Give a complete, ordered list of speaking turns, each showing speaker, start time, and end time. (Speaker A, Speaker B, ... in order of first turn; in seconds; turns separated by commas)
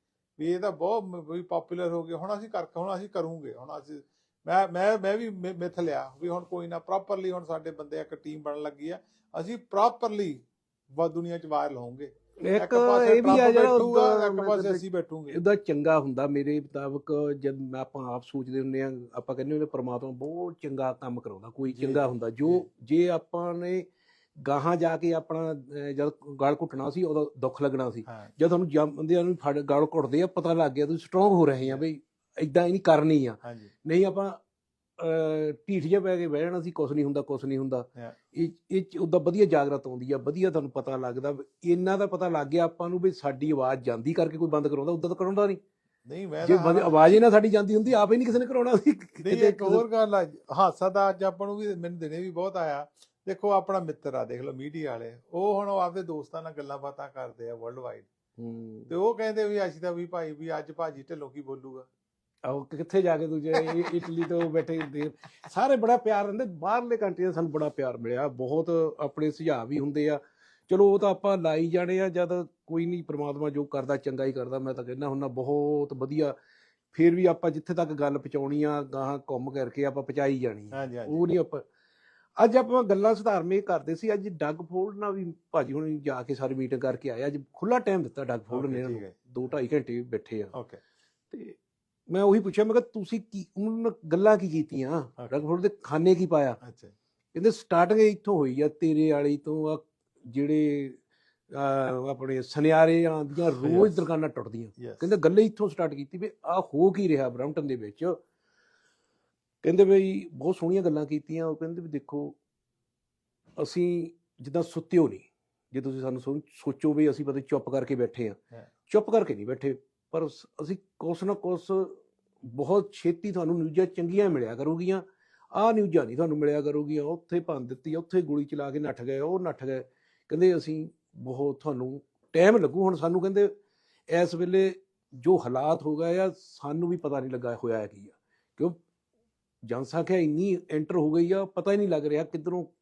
Speaker A: 0.4-15.4, Speaker B: 12.4-23.9, Speaker A: 21.7-22.7, Speaker B: 24.4-34.4, Speaker A: 28.1-28.3, Speaker A: 33.4-33.7, Speaker B: 35.0-45.6, Speaker A: 46.1-47.2, Speaker B: 46.4-49.8, Speaker A: 49.2-58.1, Speaker B: 58.4-58.9, Speaker A: 58.9-61.9, Speaker B: 62.5-76.3, Speaker B: 76.9-81.7, Speaker A: 80.7-81.2, Speaker B: 82.4-90.5, Speaker A: 88.5-89.2, Speaker A: 90.5-90.8, Speaker B: 91.3-91.6, Speaker B: 92.1-96.6, Speaker A: 96.6-97.0, Speaker B: 97.3-101.0, Speaker B: 101.5-108.2, Speaker A: 103.6-103.9, Speaker A: 104.8-105.1, Speaker B: 109.6-112.4, Speaker B: 113.6-133.5, Speaker B: 134.1-138.8, Speaker B: 139.7-142.7